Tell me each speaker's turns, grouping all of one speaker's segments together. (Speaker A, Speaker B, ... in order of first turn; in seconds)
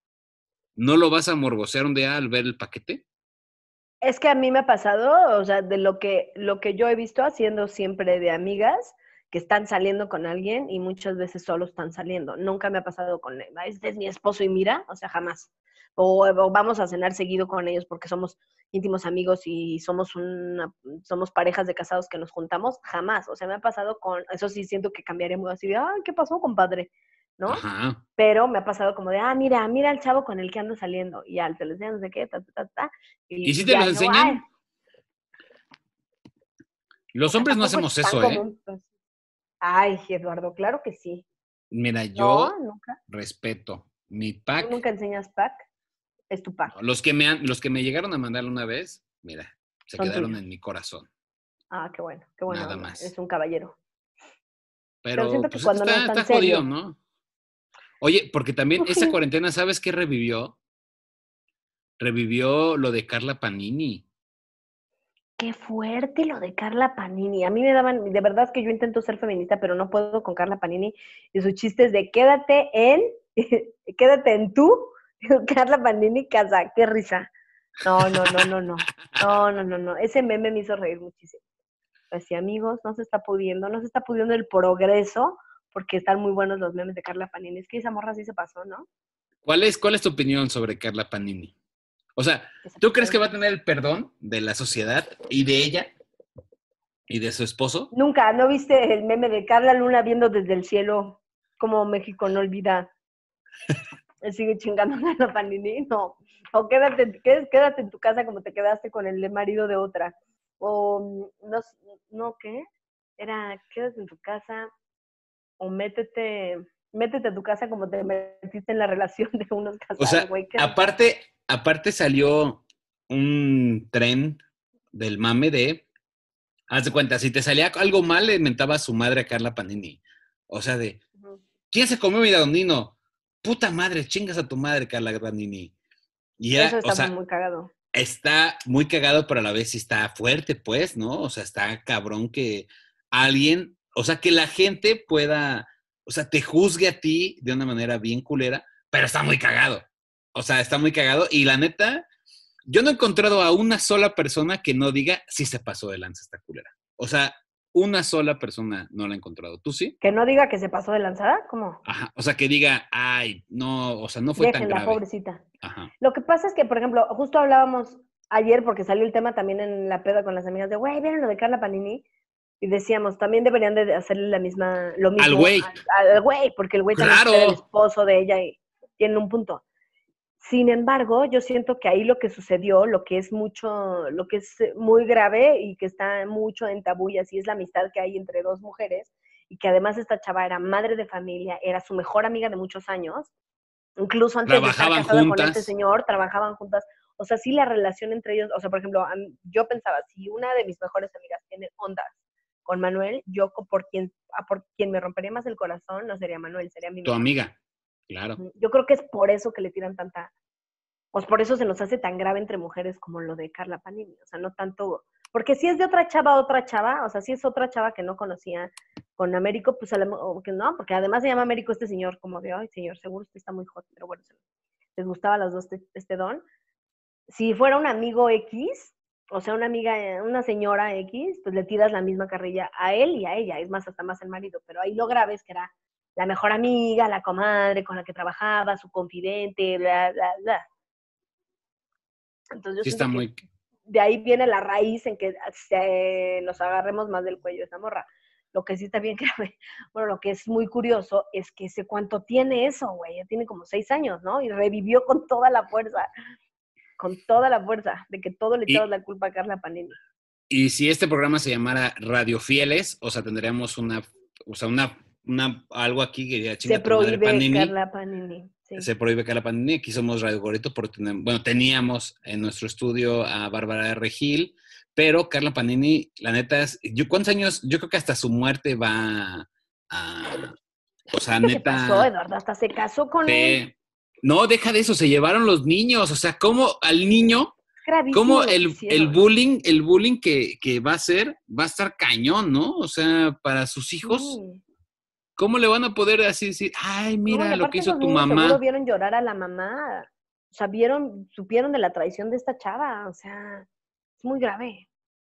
Speaker A: 0.8-3.0, 27.5-28.0, 33.4-34.4, 37.1-38.4, 41.7-42.5, 43.1-44.8, 46.7-51.1, 52.5-53.1, 55.0-57.0, 58.0-60.5, 62.0-64.0, 78.0-78.4, 89.4-91.5, 92.2-95.9, 97.1-97.9, 120.0-124.4, 124.9-125.8, 126.7-131.0, 131.7-135.7, 136.4-137.1, 137.9-152.1, 152.7-159.9, 161.8-165.0, 165.6-165.9, 175.2-175.8, 176.9-177.6, 194.4-195.7, 207.0-207.5, 208.1-208.4, 242.8-243.4, 260.5-267.7, 268.8-280.5, 281.1-282.1, 283.2-287.5, 288.1-294.4, 295.4-298.6
Speaker B: 4.0-27.6, 28.2-34.4, 37.3-38.9, 39.6-41.2, 42.1-43.0, 44.6-45.6, 46.3-46.7, 50.0-50.4, 51.7-53.8, 55.1-56.6, 58.8-59.1, 65.4-77.3, 77.8-81.4, 82.1-88.8, 92.6-93.2, 97.9-102.9, 104.2-112.7, 113.2-114.7, 115.6-120.8, 136.6-137.7, 160.0-161.8, 164.4-165.4, 166.0-172.0, 172.6-179.6, 180.4-193.3, 194.0-207.3, 208.4-210.3, 211.1-224.3, 224.9-226.4, 227.3-240.6, 242.5-243.2, 243.9-256.1, 257.0-260.0, 266.6-268.9, 281.4-283.6, 287.8-289.1, 294.0-294.6, 297.3-303.7, 304.2-304.9